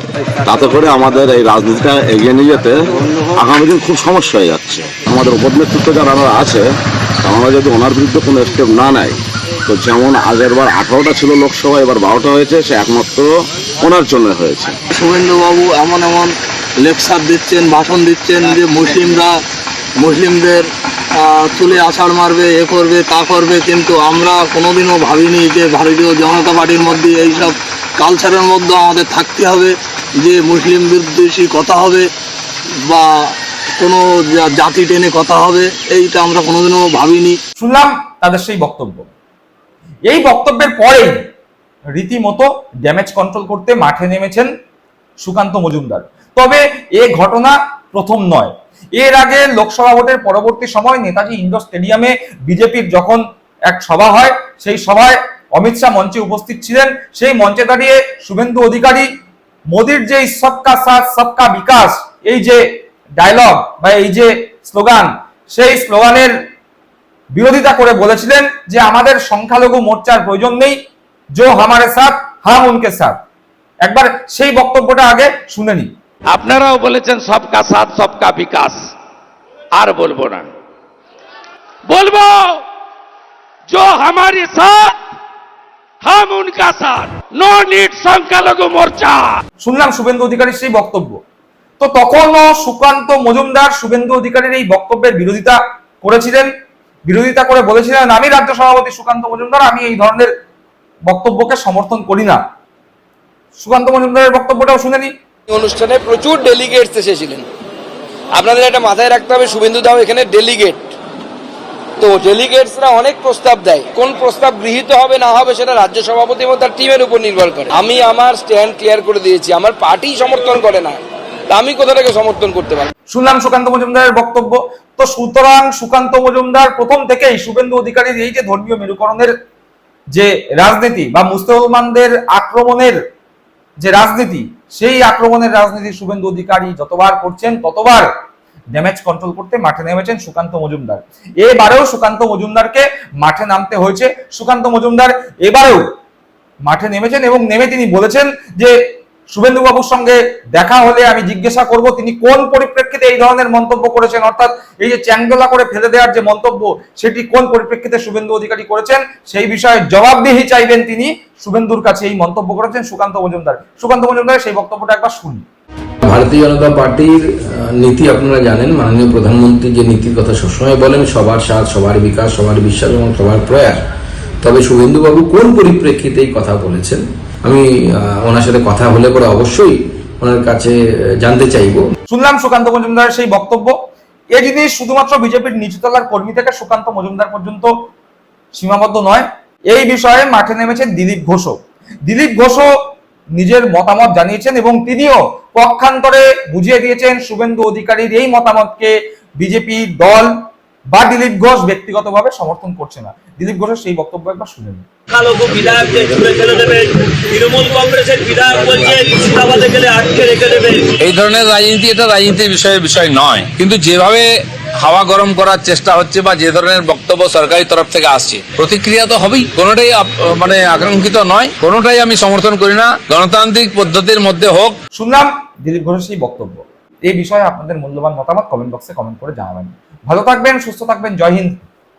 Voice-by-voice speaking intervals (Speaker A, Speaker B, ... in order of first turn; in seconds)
Speaker A: 0.5-6.7, 7.2-14.8
Speaker B: 14.9-19.4, 20.0-32.1, 32.8-37.4
Speaker C: 37.6-39.1, 40.1-41.2, 41.9-44.5, 45.2-59.1, 59.7-62.6, 63.2-66.3, 67.3-70.8, 71.3-73.2, 73.8-75.9, 89.6-91.2, 91.8-96.5, 97.1-100.3, 101.1-102.4, 103.6-105.1, 123.1-129.3, 130.1-133.0, 133.8-138.1, 138.7-145.8, 146.7-148.8, 149.3-165.4, 182.1-183.8, 184.3-187.7, 188.5-192.7, 193.3-200.3, 200.9-204.8, 224.9-231.7
Speaker D: 76.3-78.8, 79.8-80.5, 81.9-82.6, 83.7-85.0, 86.0-89.4
Speaker E: 105.5-107.5, 108.3-111.0, 112.0-122.9
Speaker F: 166.0-173.8, 174.4-181.9
Speaker G: 205.1-210.9
Speaker H: 211.0-214.3, 214.8-224.8